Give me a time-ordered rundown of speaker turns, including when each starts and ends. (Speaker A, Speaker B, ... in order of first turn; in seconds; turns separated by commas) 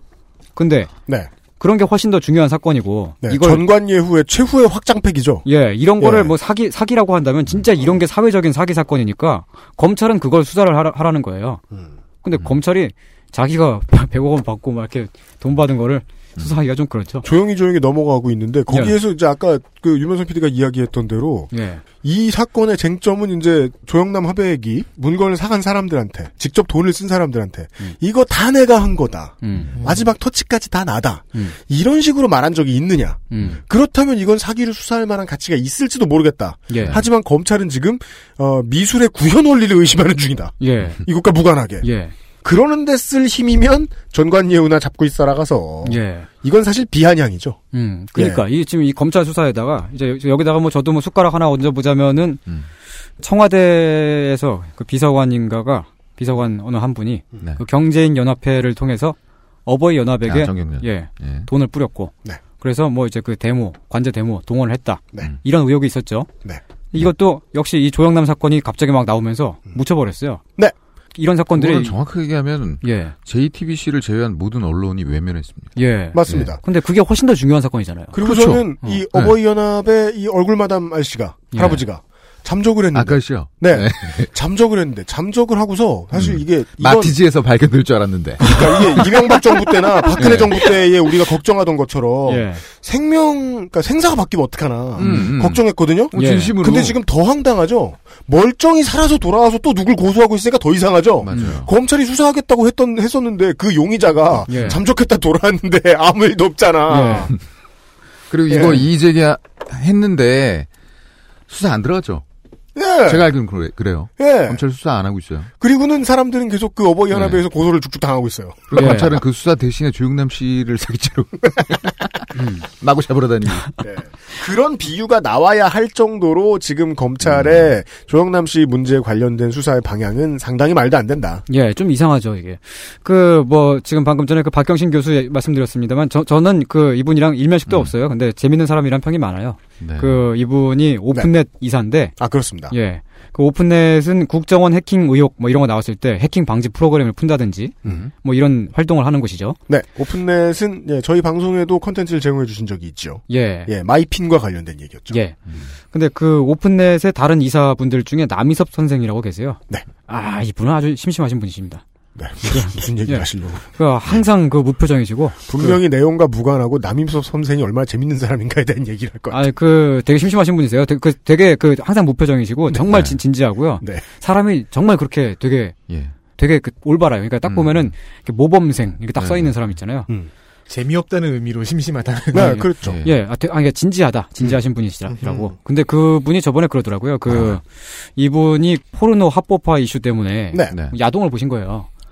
Speaker A: 0.6-0.9, Speaker A: 1.6-3.6, Speaker B: 3.2-5.5, Speaker A: 5.4-11.6, Speaker B: 6.0-6.3, Speaker A: 12.2-17.2, Speaker B: 17.2-41.9, Speaker A: 18.7-18.9, Speaker A: 21.5-21.8, Speaker A: 29.4-29.7, Speaker C: 29.8-30.0, Speaker A: 33.3-33.6, Speaker A: 36.7-37.0, Speaker A: 40.6-41.0, Speaker A: 41.8-42.1, Speaker B: 42.4-47.6, Speaker A: 45.8-46.3, Speaker A: 47.7-52.4, Speaker B: 48.1-48.4, Speaker A: 53.2-66.3, Speaker D: 60.2-61.5, Speaker A: 66.9-70.4, Speaker A: 71.2-72.0, Speaker D: 71.5-76.5, Speaker A: 72.8-73.1, Speaker A: 75.8-78.2, Speaker B: 76.1-76.6, Speaker B: 78.1-87.2, Speaker D: 78.2-79.3, Speaker A: 81.5-81.8, Speaker D: 82.9-84.3, Speaker D: 86.1-88.7, Speaker A: 88.4-89.6, Speaker B: 88.4-107.3, Speaker D: 90.1-90.6, Speaker A: 90.2-90.7, Speaker A: 92.3-92.6, Speaker D: 95.0-97.0, Speaker A: 95.0-95.3, Speaker A: 96.1-96.5, Speaker D: 101.2-101.7, Speaker A: 101.3-101.6, Speaker A: 104.5-104.8, Speaker D: 104.5-104.8, Speaker A: 106.9-107.3, Speaker D: 108.3-110.7, Speaker B: 108.5-108.8, Speaker D: 111.5-112.2, Speaker B: 112.8-113.2, Speaker D: 113.0-115.5, Speaker B: 114.2-114.6, Speaker B: 115.6-118.8, Speaker D: 117.1-117.4, Speaker D: 118.7-122.1, Speaker A: 118.7-119.2, Speaker A: 122.3-122.7, Speaker D: 122.7-123.8, Speaker B: 123.8-131.4, Speaker D: 127.3-127.6, Speaker A: 131.5-142.2, Speaker D: 137.7-137.9, Speaker D: 139.8-140.2, Speaker B: 142.2-142.7, Speaker A: 142.7-149.6, Speaker B: 149.7-155.2, Speaker A: 153.3-153.7, Speaker A: 155.1-161.8, Speaker B: 162.2-163.6, Speaker A: 162.4-165.8, Speaker B: 165.5-169.5, Speaker A: 169.3-175.8, Speaker D: 172.9-173.2, Speaker D: 175.9-176.1, Speaker A: 176.3-180.1, Speaker D: 177.4-177.9, Speaker D: 179.2-179.7, Speaker C: 180.7-182.6, Speaker B: 182.3-183.0, Speaker A: 182.3-191.9, Speaker D: 182.8-183.2, Speaker C: 185.1-185.5, Speaker D: 187.3-187.6, Speaker D: 190.7-190.9